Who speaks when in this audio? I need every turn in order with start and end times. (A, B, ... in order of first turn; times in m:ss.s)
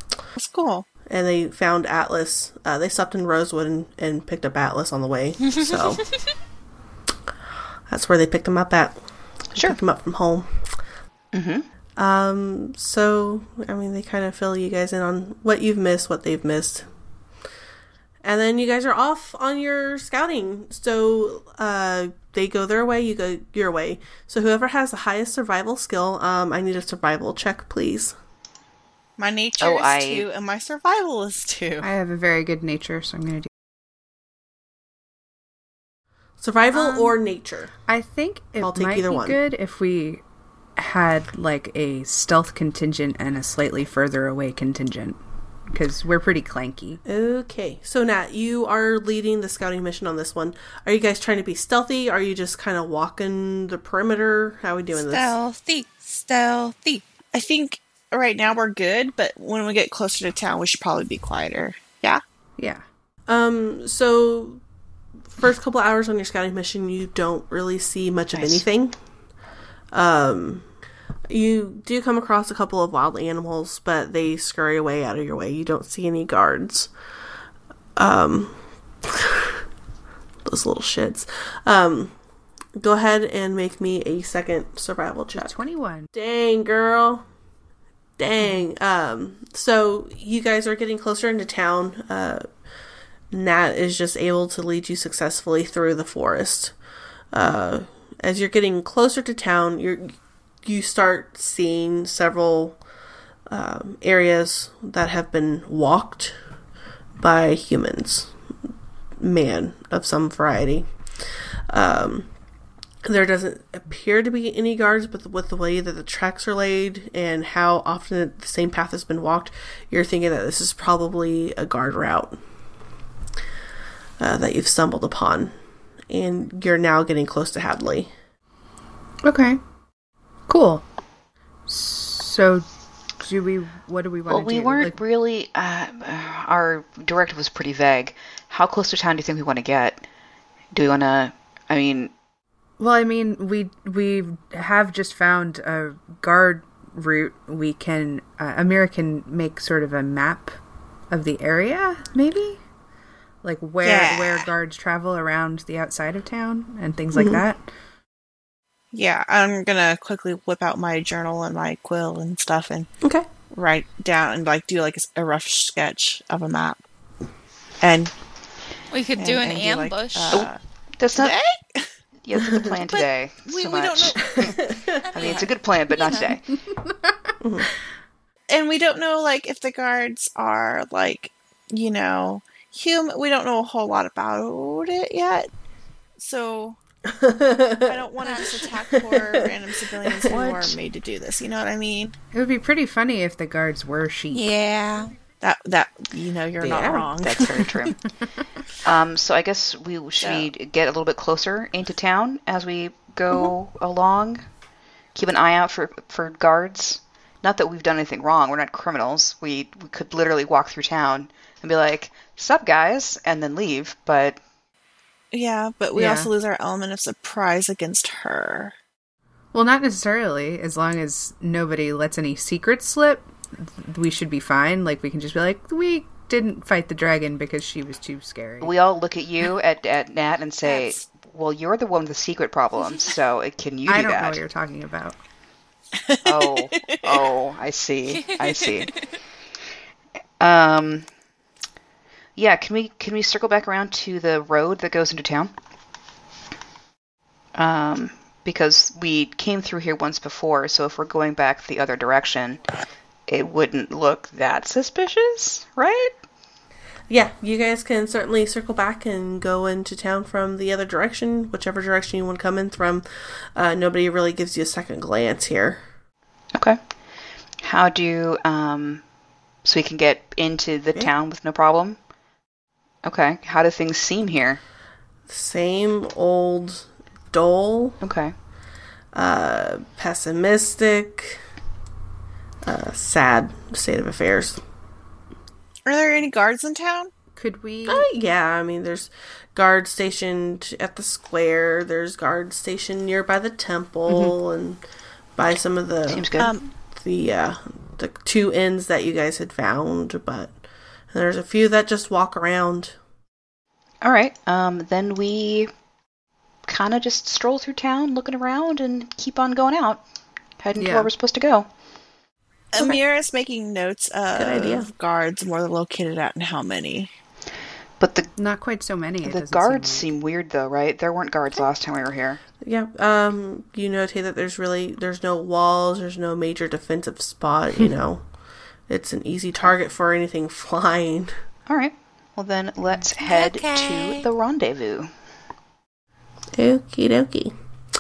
0:00.4-0:00.9 A
0:01.1-0:06.0 B
0:07.9-0:09.0 B
0:09.6-0:10.7 B
0:11.3-0:11.7 C
0:12.0-0:16.9 B
0:18.2-0:28.1 B
0:29.2-0:31.9 A
0:29.6-0:30.3 C
0:31.8-0:33.5 D
0:36.4-0:37.7 B
0:36.7-0:37.1 D
0:37.9-0:40.2 D
0:38.6-0:39.4 B
0:40.8-0:47.0 D
0:47.0-0:55.4 B
0:55.0-0:57.0 E
0:57.3-1:02.2 A
1:02.6-1:02.8 D
1:03.3-1:04.6 B
1:05.4-1:09.0 B
1:08.4-1:08.6 C
1:09.9-1:10.7 B
1:11.3-1:16.9 B
1:18.0-1:19.6 B
1:20.4-1:22.1 B
1:22.8-1:25.6 B
1:25.4-1:26.1 D
1:26.1-1:27.3 B
1:28.2-1:32.5 B
1:33.3-1:36.8 B
1:37.3-1:42.8 B
1:43.5-1:46.4 B
1:47.2-1:48.3 B
1:49.2-1:50.9 B
1:51.7-1:52.3 B
1:53.0-2:02.4 B
2:04.2-2:05.6 B
2:06.1-2:08.1 B
2:09.2-2:09.6 D
2:10.5-2:10.8 D
2:11.7-2:12.7 D
2:13.2-2:15.0 D
2:14.3-2:20.0 C
2:20.7-2:22.1 C
2:22.8-2:30.6 D
2:31.1-2:32.6 D
2:33.4-2:37.6 D
2:33.8-2:34.5 A
2:37.1-2:37.4 B
2:38.9-2:42.9 A
2:43.0-2:43.3 B
2:43.5-2:46.8 A
2:47.8-2:48.1 A
2:48.9-2:50.5 E
2:49.2-2:50.6 A
2:51.0-2:51.3 C
2:51.1-2:51.9 A
2:52.2-2:54.6 C
2:52.4-2:52.8 B
2:52.9-2:54.6 A
2:54.3-2:55.2 B
2:55.0-2:56.4 E
2:55.2-2:56.4 C
2:56.7-2:57.3 D
2:57.4-2:57.7 B
2:58.5-3:05.5 A
3:06.2-3:06.8 A
3:07.1-3:08.1 B
3:07.9-3:12.1 A
3:08.2-3:08.7 E
3:09.0-3:09.4 B
3:10.0-3:10.8 B
3:12.3-3:14.5 D
3:14.3-3:15.1 E
3:15.4-3:17.9 A
3:16.6-3:17.1 B
3:17.2-3:18.0 C
3:18.8-3:24.4 C
3:20.2-3:20.5 A
3:25.2-3:34.4 C
3:35.3-3:38.7 A
3:36.0-3:36.3 D
3:39.5-3:48.7 D
3:48.6-3:54.4 C
3:50.6-3:51.1 A
3:53.9-3:55.2 D
3:56.0-3:57.3 A
3:56.2-3:59.0 C
3:58.1-3:59.0 E
4:00.4-4:01.1 C
4:02.4-4:05.5 C
4:07.6-4:12.6 C
4:13.3-4:16.1 C
4:17.1-4:25.8 B
4:26.5-4:26.8 C
4:27.6-4:29.0 C
4:29.6-4:32.0 C
4:33.0-4:34.6 C
4:35.3-4:38.0 B
4:38.0-4:38.3 C
4:39.1-4:41.4 B
4:42.6-4:44.6 B
4:45.9-4:47.1 A
4:47.4-4:48.1 D
4:47.9-4:54.8 B
4:54.1-4:54.4 D
4:55.4-5:00.6 B
4:56.1-4:56.5 C
4:56.4-4:56.7 A
5:01.1-5:03.0 B
5:04.0-5:05.7 C
5:06.7-5:10.0 C
5:10.6-5:11.7 C
5:10.8-5:11.1 D
5:12.7-5:17.1 A
5:14.4-5:14.9 B
5:18.0-5:18.3 C
5:18.4-5:20.1 D
5:19.2-5:22.4 C
5:22.6-5:28.2 B
5:28.9-5:31.3 B
5:31.7-5:35.1 C
5:33.2-5:34.3 E
5:36.6-5:37.5 B